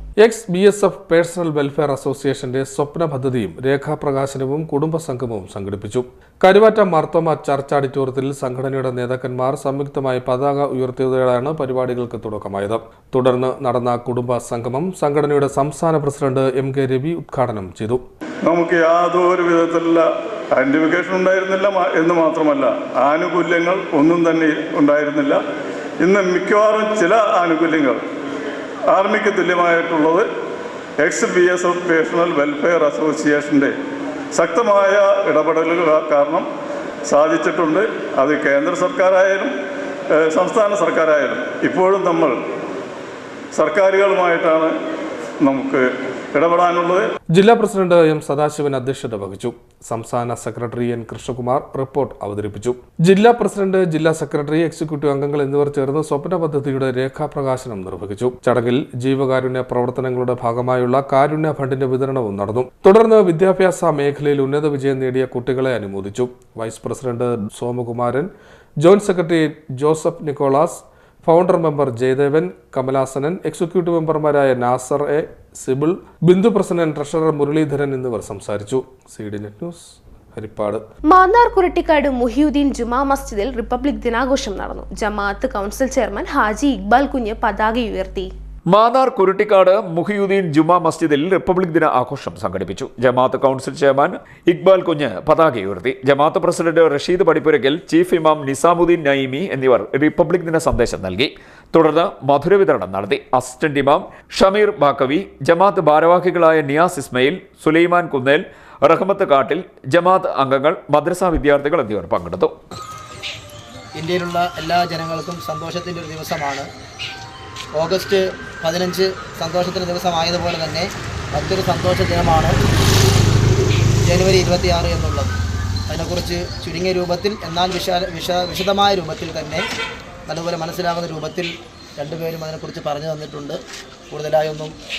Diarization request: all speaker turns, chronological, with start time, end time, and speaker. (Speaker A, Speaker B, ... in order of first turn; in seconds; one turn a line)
Speaker A: 0.2-18.0
Speaker B: 18.4-25.4
Speaker B: 26.0-28.0
Speaker B: 28.9-30.3
Speaker B: 31.0-33.7
Speaker B: 34.3-36.5
Speaker B: 37.1-39.5
Speaker B: 40.2-42.4
Speaker B: 43.5-44.7
Speaker B: 45.4-47.0
Speaker A: 47.4-68.3
Speaker A: 68.8-80.8
Speaker C: 81.1-88.3
Speaker D: 88.7-112.5
Speaker E: 114.0-116.7
Speaker E: 117.7-122.6
Speaker E: 124.0-125.3
Speaker E: 125.9-129.6
Speaker E: 130.2-133.6
Speaker E: 134.1-134.7